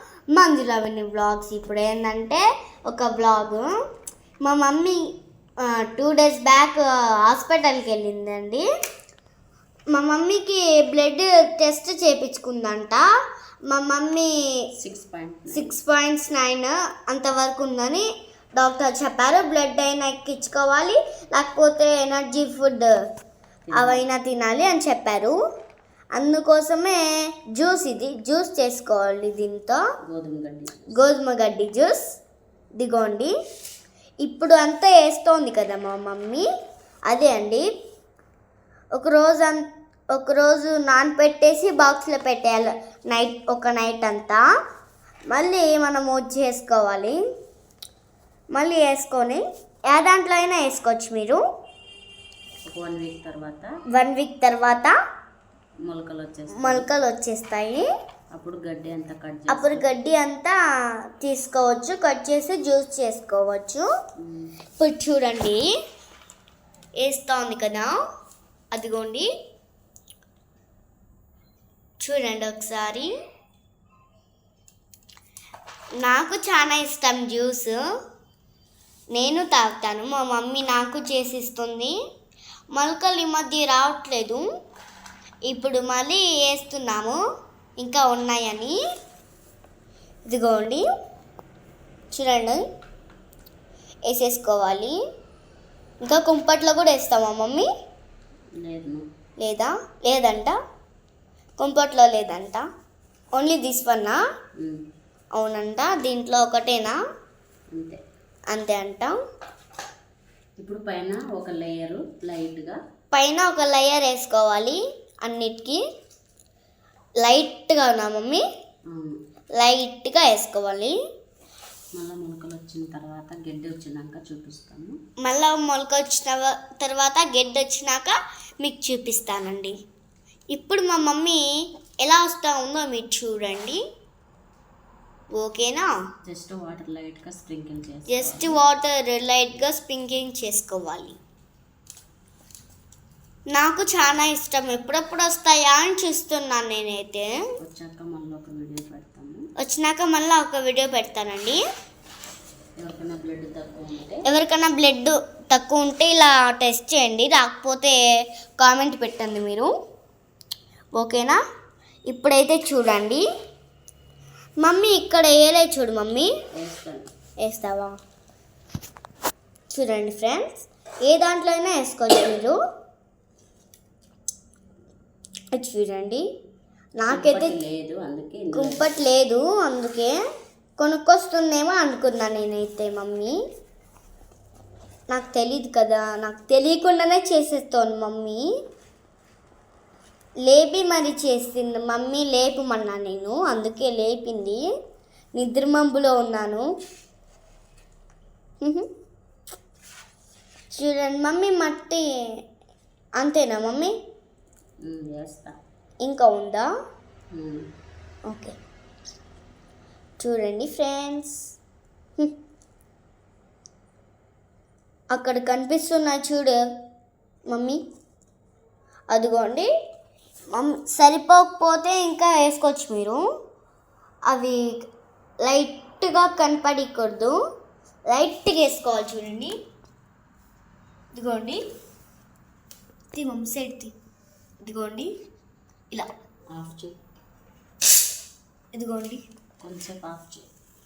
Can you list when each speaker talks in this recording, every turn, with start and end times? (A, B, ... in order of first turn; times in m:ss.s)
0:00.3-0:03.7 A
0:04.4-0:05.0 A
0:05.6-0:08.6 A
0:09.9-0:13.0 A
0:13.7-0:14.3 A
0:14.8-0:15.7 B
0:15.5-0:18.0 A
0:18.6-0:22.9 A
0:23.6-0:24.0 B
0:23.7-0:25.4 A
0:26.1-0:29.8 A
0:30.1-0:30.9 B
0:30.9-0:32.0 A
0:32.8-0:33.3 A
0:34.2-0:36.4 A
0:37.1-0:37.6 A
0:39.0-0:44.4 A
0:45.3-0:47.2 A
0:48.5-0:51.4 A
0:52.7-0:53.7 B
0:53.9-0:54.9 A
0:55.8-0:56.9 B
0:56.6-0:57.9 A
0:58.3-0:59.9 B
0:59.5-1:00.6 A
1:01.2-1:03.8 A
1:04.2-1:04.5 B
1:04.8-1:05.6 A
1:07.0-1:07.9 A
1:08.7-1:09.3 A
1:12.0-1:13.1 A
1:16.0-1:17.7 A
1:19.1-1:21.9 A
1:22.7-1:24.4 A
1:25.5-1:27.2 A
1:27.8-1:28.7 A
1:30.3-1:30.8 A
1:32.1-1:32.6 A
1:34.1-1:35.0 A
1:36.0-1:37.7 A
1:38.6-1:39.0 B
1:39.4-1:40.6 A
1:41.6-1:42.6 A
1:43.4-1:44.2 A
1:45.4-1:47.0 A
1:48.5-1:49.1 A
1:50.6-1:52.8 B
1:53.1-1:55.8 A
1:57.2-1:58.4 A
1:58.9-1:59.2 B
1:59.6-2:00.9 A
2:02.0-2:05.0 B
2:05.2-2:09.7 A
2:10.5-2:11.4 A
2:12.0-2:13.8 A
2:15.4-2:15.9 A
2:16.2-2:18.6 B
2:18.1-2:21.2 A
2:23.5-2:27.3 A
2:27.6-2:29.4 B
2:29.6-2:31.6 A
2:32.8-2:34.2 B
2:34.2-2:38.0 A
2:38.6-2:39.7 A
2:41.0-2:41.4 A
2:42.1-2:43.2 A
2:44.6-2:46.3 A
2:46.6-2:47.1 B
2:47.4-2:48.0 A
2:49.7-2:52.6 A
2:55.6-2:56.2 A
2:57.0-2:57.5 A
2:57.1-2:58.9 B
2:58.5-3:00.1 A
3:00.8-3:03.3 A
3:05.1-3:08.4 A
3:10.5-3:14.6 A
3:15.4-3:16.7 A
3:18.6-3:18.9 A
3:20.7-3:22.0 A
3:23.2-3:23.9 A
3:24.8-3:25.5 B
3:26.0-3:26.7 A
3:27.4-3:27.6 B
3:28.3-3:28.5 A
3:30.2-3:31.4 A
3:35.1-3:36.6 A
3:37.5-3:37.8 A
3:39.1-3:39.7 A
3:40.5-3:43.2 A
3:44.3-3:44.6 A
3:45.4-3:47.3 A
3:48.1-3:49.5 A
3:51.2-3:51.6 A
3:53.1-3:53.9 A
3:54.6-3:55.1 A
3:56.5-3:57.0 B
3:58.8-3:59.2 A
3:59.6-4:00.5 B